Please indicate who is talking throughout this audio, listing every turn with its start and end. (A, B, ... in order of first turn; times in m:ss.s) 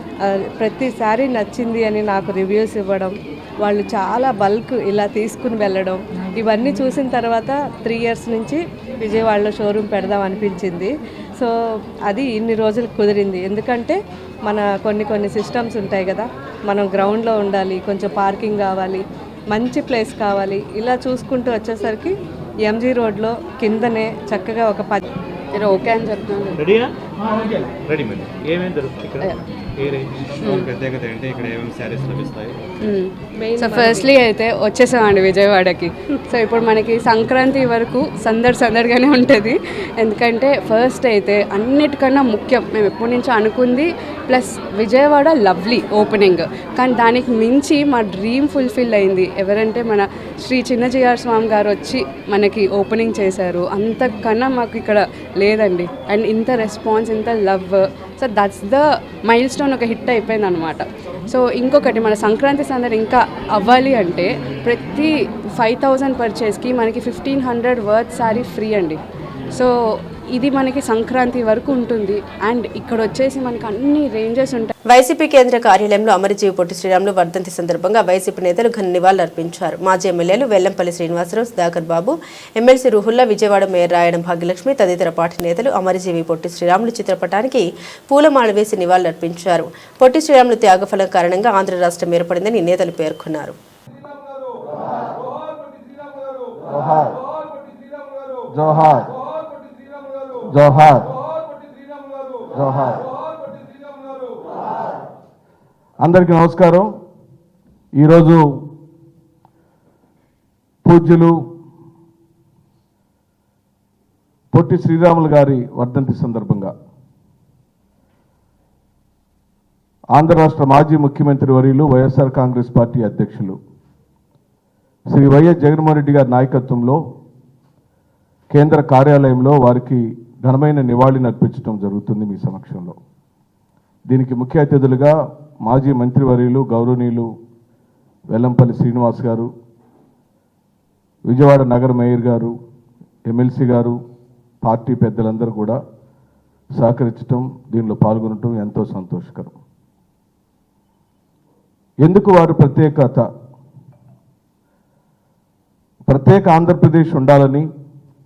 0:00.2-0:11.5 A
0:12.1-0:22.1 A
0:22.6-0:25.1 A
0:25.5-0:26.6 B
0:26.6-0:32.6 C
0:32.8-1:09.0 B
0:33.6-0:34.0 A
1:09.5-1:14.7 B
1:14.9-1:33.6 D
1:36.7-1:37.2 E
1:38.5-1:39.1 E
1:40.5-1:41.1 E
1:42.5-1:43.1 E
1:46.0-1:46.9 E
1:48.0-1:48.4 E
1:50.8-1:51.4 E
1:54.5-1:56.7 E
2:00.1-2:03.6 E
2:05.1-2:07.0 E
2:08.5-2:13.0 E
2:14.1-2:17.3 E
2:18.3-2:19.5 E
2:21.3-2:22.5 E
2:23.2-2:24.0 E
2:24.6-2:25.8 E
2:26.8-2:29.6 E
2:32.0-2:33.2 E
2:36.1-2:37.7 E